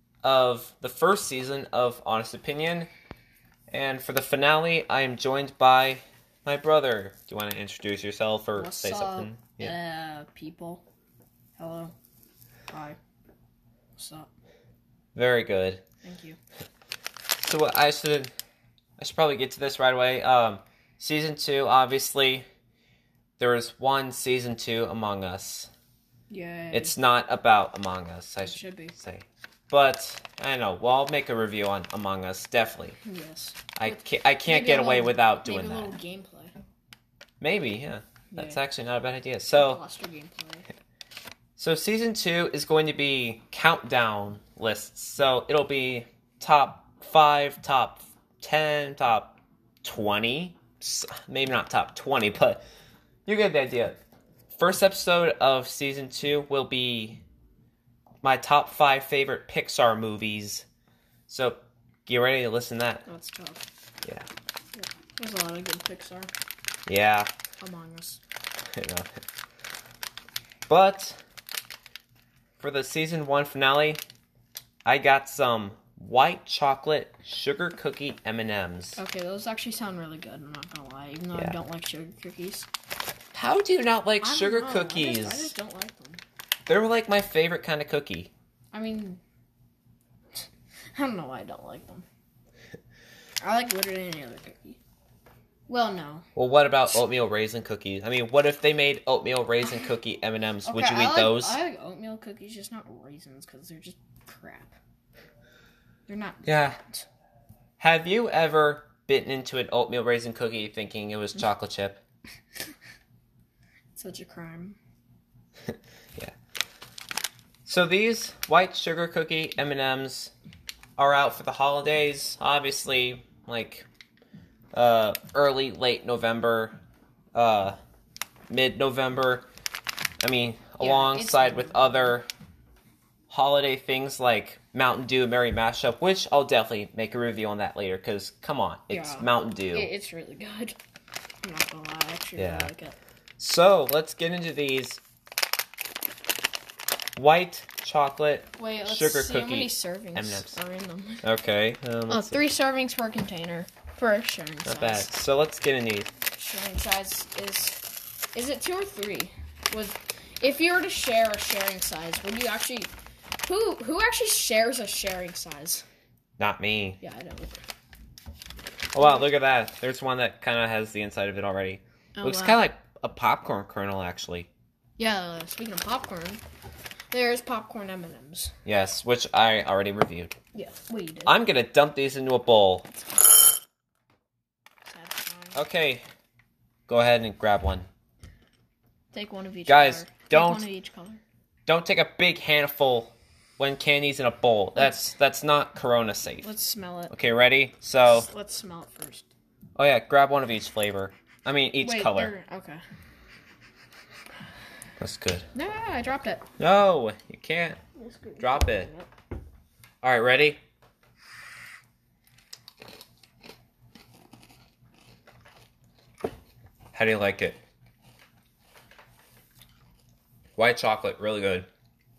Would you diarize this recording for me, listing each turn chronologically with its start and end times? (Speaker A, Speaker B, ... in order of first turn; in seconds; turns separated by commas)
Speaker A: 0.2-2.9, Speaker A: 3.7-9.7, Speaker B: 8.5-10.8, Speaker B: 11.6-11.9, Speaker B: 12.7-13.0, Speaker B: 13.9-14.3, Speaker A: 15.1-15.8, Speaker B: 16.0-16.4, Speaker A: 17.4-18.3, Speaker A: 19.0-22.4, Speaker A: 23.4-25.7, Speaker B: 26.3-26.9, Speaker A: 26.7-33.0, Speaker B: 28.4-29.0, Speaker B: 33.0-36.5, Speaker A: 33.8-36.0, Speaker A: 37.4-39.8, Speaker B: 38.3-38.6, Speaker B: 39.5-40.7, Speaker A: 41.6-52.6, Speaker A: 53.2-54.0, Speaker A: 54.5-57.2, Speaker A: 58.2-60.6, Speaker A: 61.3-63.0, Speaker B: 63.0-63.6, Speaker B: 64.7-66.3, Speaker A: 66.9-67.3, Speaker B: 67.6-68.2, Speaker A: 68.8-69.1, Speaker A: 70.7-71.2, Speaker A: 72.6-74.0, Speaker A: 74.8-79.0, Speaker B: 79.0-82.7, Speaker A: 83.3-85.5, Speaker B: 84.2-86.2, Speaker A: 86.7-88.3, Speaker B: 88.7-89.2, Speaker B: 90.9-92.0, Speaker B: 93.4-94.8, Speaker B: 95.7-96.2, Speaker A: 96.3-101.6, Speaker B: 100.6-104.8, Speaker B: 106.1-107.0, Speaker A: 106.5-106.8, Speaker A: 107.8-112.0, Speaker B: 113.9-114.8, Speaker A: 117.7-120.3, Speaker A: 121.0-123.8, Speaker A: 124.7-126.8, Speaker A: 127.3-127.8, Speaker A: 128.5-129.4, Speaker A: 130.2-132.3, Speaker B: 130.8-132.2, Speaker A: 133.3-139.9, Speaker B: 138.9-140.8, Speaker B: 141.4-143.0, Speaker A: 142.3-142.7, Speaker A: 143.4-145.0, Speaker A: 147.2-150.6, Speaker B: 148.6-151.2, Speaker A: 151.2-152.4, Speaker B: 152.1-155.1, Speaker A: 154.6-156.1, Speaker B: 156.3-165.8, Speaker A: 166.4-167.0, Speaker B: 167.0-167.6, Speaker A: 168.9-174.5, Speaker B: 169.0-169.3, Speaker B: 172.2-172.6, Speaker B: 175.0-176.4, Speaker B: 177.1-178.5, Speaker A: 178.6-180.3, Speaker B: 180.5-181.4, Speaker A: 181.2-182.9, Speaker B: 184.9-185.6, Speaker A: 185.5-186.0, Speaker A: 186.9-187.9, Speaker B: 189.1-191.2, Speaker A: 189.7-190.7, Speaker A: 191.7-196.5, Speaker B: 194.8-195.1, Speaker B: 196.4-197.1, Speaker A: 197.1-198.3, Speaker B: 198.1-199.3, Speaker A: 199.8-202.3, Speaker B: 201.8-202.8, Speaker A: 205.0-205.5, Speaker B: 205.5-206.4, Speaker A: 206.6-207.8, Speaker B: 207.9-209.1, Speaker A: 208.4-208.9, Speaker A: 210.0-210.6, Speaker A: 216.9-217.6, Speaker A: 220.6-221.7